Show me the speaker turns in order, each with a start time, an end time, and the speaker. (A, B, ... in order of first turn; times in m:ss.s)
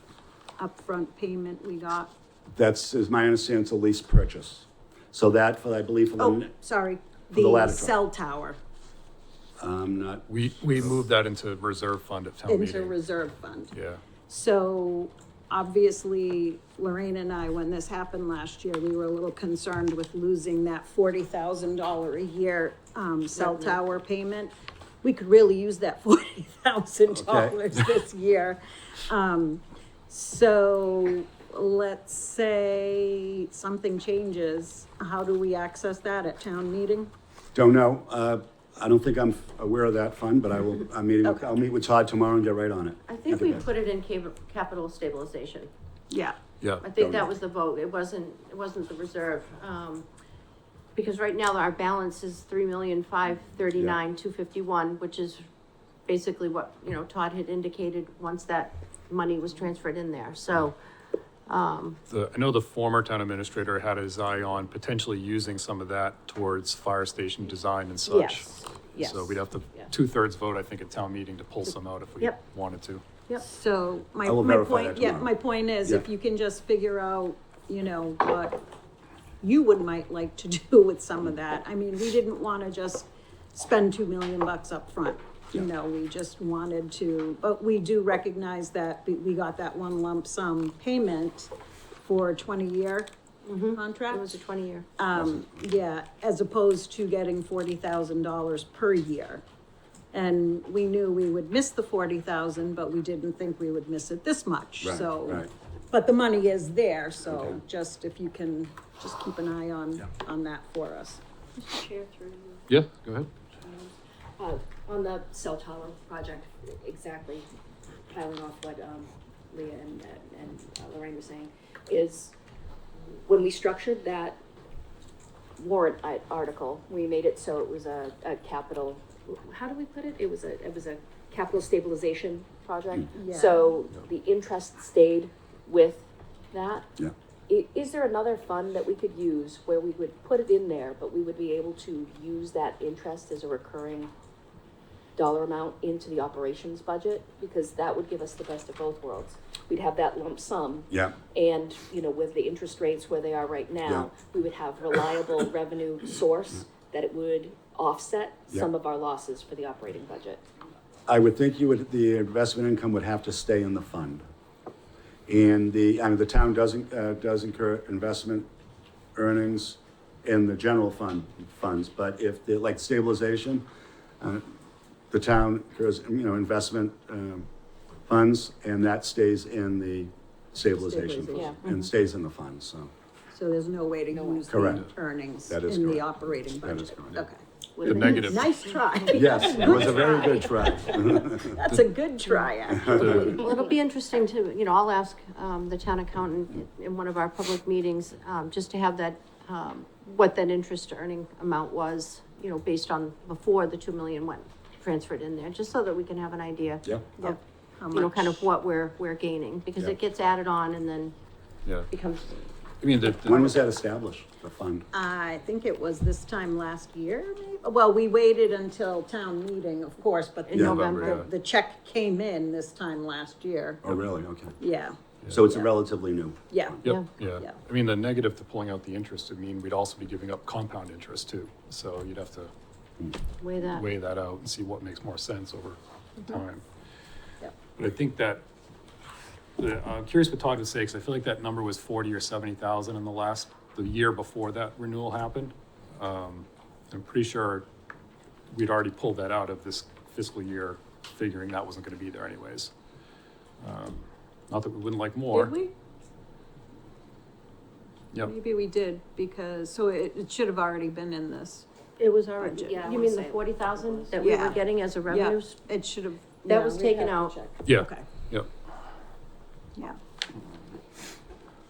0:00.6-0:02.1 A
0:02.5-0:06.5 B
0:06.2-0:08.6 A
0:07.3-0:08.0 B
0:09.6-0:11.0 B
0:10.3-0:13.0 C
0:12.5-0:13.7 A
0:13.7-0:14.0 C
0:14.3-0:24.5 A
0:23.5-0:23.8 D
0:25.0-0:37.1 A
0:27.1-0:27.6 B
0:37.6-0:43.6 B
0:41.2-0:41.5 A
0:43.1-0:45.7 E
0:46.1-0:46.4 A
0:46.8-0:50.1 E
0:47.0-0:47.3 B
0:51.0-0:55.4 E
0:56.1-1:00.8 E
1:01.5-1:02.0 E
1:02.1-1:13.0 C
1:08.1-1:08.4 A
1:08.7-1:09.9 D
1:13.4-1:18.6 A
1:14.2-1:15.3 B
1:19.4-1:31.5 A
1:32.0-1:33.1 A
1:33.4-1:34.9 E
1:33.7-1:34.4 A
1:35.0-1:39.4 A
1:35.2-1:35.4 B
1:40.1-1:51.2 A
1:44.8-1:45.5 B
1:47.2-1:47.6 B
1:51.6-1:52.6 D
1:52.7-1:53.3 C
1:53.6-1:57.5 D
1:58.1-2:02.3 D
2:03.2-2:04.4 D
2:05.6-2:16.9 D
2:13.1-2:13.7 A
2:17.5-2:24.1 D
2:25.2-2:40.4 D
2:30.9-2:31.2 B
2:33.8-2:34.1 B
2:41.1-2:44.2 B
2:45.3-2:48.5 B
2:49.2-2:53.7 B
2:54.2-2:54.5 B
2:55.1-2:57.5 B
2:58.1-3:02.9 B
3:00.8-3:01.6 A
3:01.3-3:01.6 D
3:03.3-3:13.5 A
3:04.1-3:04.5 D
3:04.5-3:04.9 B
3:05.5-3:07.3 B
3:07.8-3:08.2 D
3:07.8-3:08.5 C
3:07.9-3:08.4 E
3:09.0-3:10.0 E
3:09.1-3:11.6 B
3:09.7-3:10.1 D
3:12.8-3:13.1 B
3:12.9-3:13.4 C
3:13.1-3:13.7 D
3:13.3-3:27.4 E
3:26.8-3:27.1 B
3:27.2-3:28.5 A
3:27.9-3:31.2 E
3:31.6-3:31.9 C
3:31.9-3:32.4 E
3:32.8-3:33.6 C
3:33.2-3:34.9 B
3:34.9-3:43.8 A
3:40.5-3:41.3 E
3:40.6-3:40.8 B
3:40.6-3:41.3 C
3:43.8-3:44.5 B
3:44.6-3:45.7 A
3:45.3-3:46.9 B
3:46.5-3:46.8 A
3:46.8-3:52.5 C
3:53.4-3:53.9 E
3:53.7-3:56.6 C
3:57.8-3:58.4 C
3:59.6-4:07.7 C
4:08.5-4:12.7 C
4:13.6-4:15.6 C
4:18.2-4:21.7 A
4:22.0-4:25.6 E
4:22.4-4:22.7 A
4:22.6-4:24.6 D
4:24.2-4:28.1 A
4:26.4-4:27.4 E
4:27.6-4:28.5 C